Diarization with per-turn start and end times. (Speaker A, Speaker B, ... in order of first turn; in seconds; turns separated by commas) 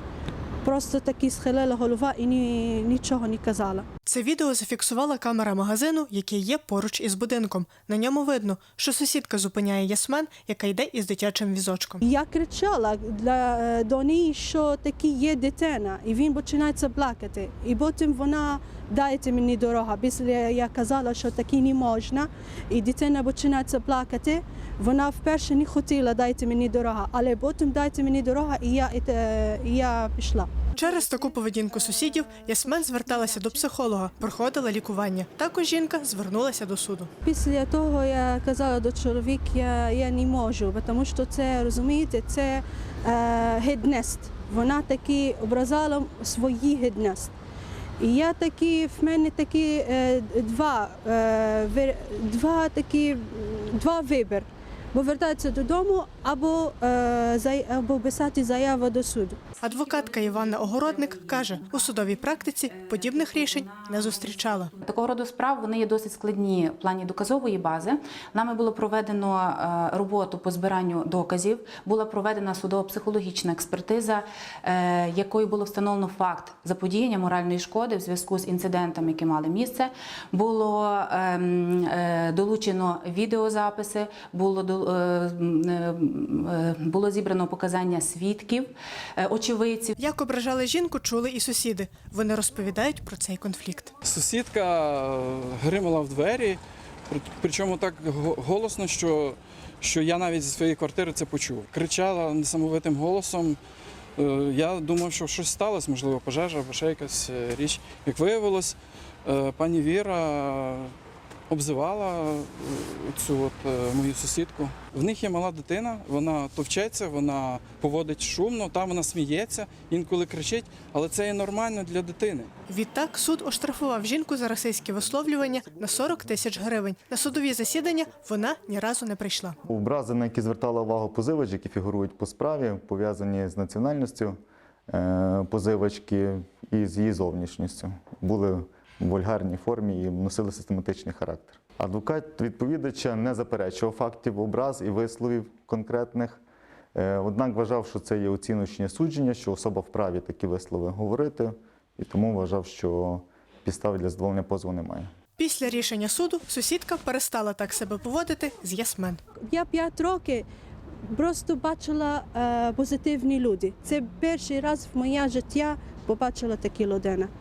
Speaker A: 0.6-3.9, Speaker B: 4.1-12.0, Speaker A: 12.0-31.3, Speaker B: 30.8-37.1, Speaker A: 32.5-33.6, Speaker A: 37.2-47.3, Speaker A: 48.0-59.4, Speaker C: 59.6-90.0, Speaker B: 59.6-64.7, Speaker B: 90.0-93.9, Speaker D: 94.0-103.6, Speaker D: 104.2-110.9, Speaker D: 111.5-122.5, Speaker B: 122.7-129.6, Speaker E: 129.7-146.4, Speaker E: 146.9-155.1, Speaker B: 155.4-159.2, Speaker A: 159.4-160.5, Speaker A: 161.1-167.3